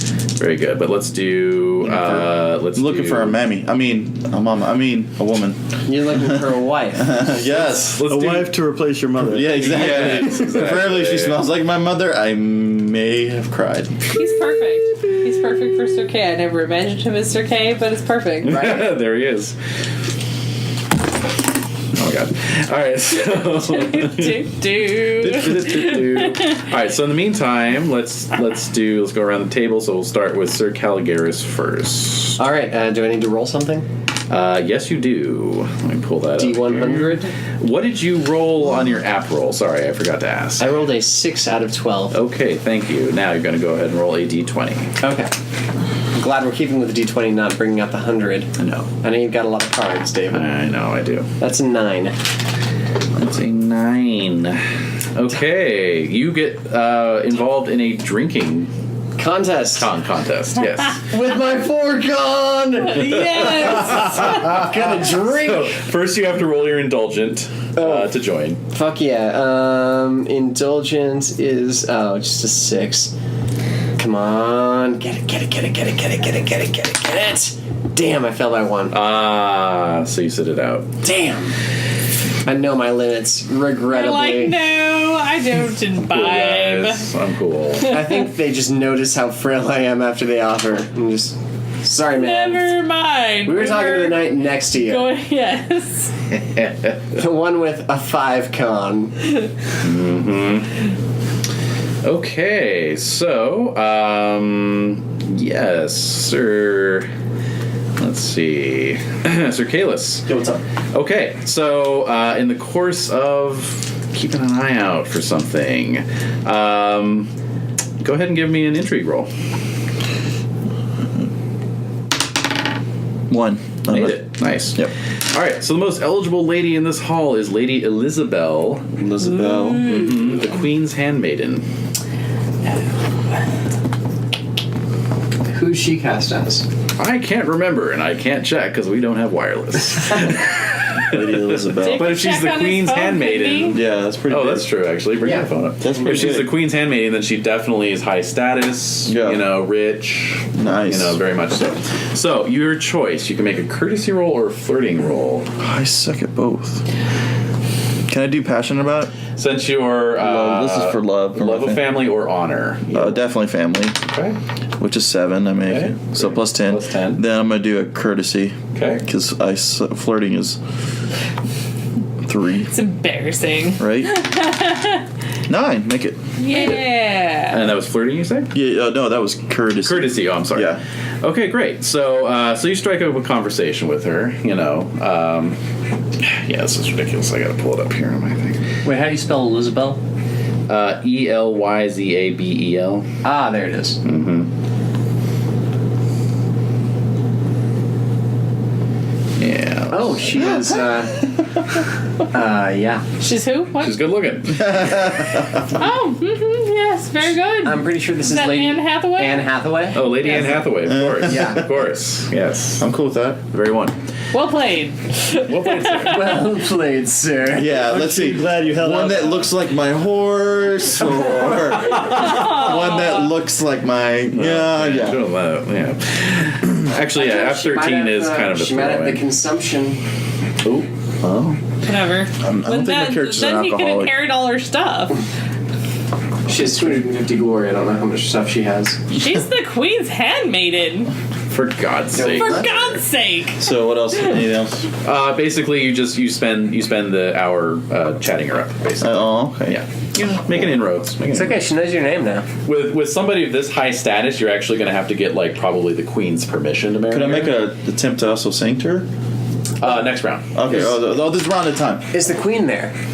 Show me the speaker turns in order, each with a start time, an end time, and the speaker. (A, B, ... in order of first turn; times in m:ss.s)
0:00.4-0:03.4 A
0:01.8-0:05.6 B
0:05.8-0:07.5 C
0:07.0-0:08.3 B
0:07.6-0:08.6 A
0:08.1-0:09.5 D
0:09.2-0:14.0 B
0:09.5-0:11.4 A
0:14.1-0:18.8 E
0:18.4-0:19.6 A
0:18.5-0:18.9 C
0:21.9-0:24.4 A
0:23.4-0:26.5 E
0:24.9-0:32.4 A
0:32.4-0:33.8 C
0:34.3-0:40.7 A
0:36.4-0:37.3 C
0:40.6-0:42.2 C
0:42.1-0:44.9 A
0:45.0-0:45.3 C
0:46.1-0:48.5 C
0:48.6-0:48.9 A
0:49.0-0:50.4 C
0:50.3-0:51.3 A
0:51.4-0:52.1 C
0:53.1-0:54.6 A
0:55.1-0:58.7 A
0:59.2-0:59.9 C
0:59.7-1:01.0 A
1:01.1-1:05.8 C
1:02.8-1:04.2 E
1:03.1-1:08.6 A
1:07.8-1:08.1 C
1:08.7-1:13.1 C
1:14.0-1:18.9 C
1:18.9-1:20.9 A
1:21.0-1:21.5 C
1:22.4-1:24.6 C
1:23.9-1:27.1 E
1:26.0-1:28.0 A
1:27.8-1:28.2 E
1:27.8-1:32.7 C
1:32.1-1:36.1 E
1:33.4-1:35.1 C
1:36.3-1:37.0 A
1:37.1-1:39.2 C
1:39.8-1:40.7 A
1:42.0-1:47.1 A
1:48.0-1:50.3 A
1:50.3-1:50.6 B
1:50.9-1:57.3 A
1:58.0-1:59.3 A
2:03.3-2:04.2 B
2:03.9-2:08.9 A
2:08.9-2:10.2 B
2:09.4-2:10.4 E
2:09.7-2:11.6 A
2:15.5-2:16.6 C
2:17.0-2:35.5 A
2:21.0-2:22.2 B
2:21.7-2:23.8 E
2:23.7-2:24.6 B
2:25.8-2:26.5 B
2:29.0-2:29.4 B
2:30.5-2:31.2 B
2:35.6-2:36.8 B
2:38.1-2:39.1 B
2:39.4-2:43.2 A
2:40.2-2:41.8 B
2:42.9-2:44.0 B
2:44.1-2:44.4 A
2:44.8-2:50.6 B
2:45.7-2:47.2 A
2:48.7-2:49.0 A
2:52.2-2:52.7 B
2:52.7-2:55.0 E
2:53.8-2:54.2 B
2:55.5-2:56.2 B
2:56.4-2:57.7 E
2:57.5-2:58.5 A
2:58.5-3:00.8 B
2:59.8-3:05.6 A
3:06.2-3:08.6 A
3:08.8-3:10.0 C
3:10.7-3:13.0 A
3:13.2-3:14.0 C
3:14.0-3:14.5 A
3:19.4-3:20.7 A
3:19.9-3:21.3 C
3:22.3-3:23.0 C
3:23.2-3:24.0 E
3:23.8-3:25.4 A
3:24.5-3:25.8 B
3:25.7-3:29.5 E
3:27.6-3:30.6 C
3:29.9-3:32.8 A
3:30.2-3:30.5 E
3:30.8-3:31.6 B
3:31.2-3:31.7 C
3:32.8-3:33.4 B
3:33.5-3:33.9 A
3:34.3-3:36.2 E
3:35.4-3:36.4 A
3:35.9-3:38.3 C
3:37.5-3:45.2 B
3:37.8-3:39.4 D
3:41.9-3:42.2 A
3:42.2-3:43.3 E
3:44.3-3:49.2 A
3:47.1-3:50.0 C
3:50.6-3:51.6 A
3:51.8-3:55.2 E
3:52.4-3:54.2 B
3:56.4-3:59.1 C
3:59.1-4:01.1 E
4:01.5-4:03.0 A
4:02.1-4:02.8 C
4:02.2-4:03.7 E
4:03.6-4:04.9 B
4:05.0-4:11.6 A
4:09.0-4:09.8 B
4:11.3-4:12.5 C
4:12.6-4:17.6 A
4:17.1-4:19.1 B
4:19.8-4:20.5 A
4:20.5-4:22.0 B
4:20.7-4:21.0 C
4:22.1-4:22.9 C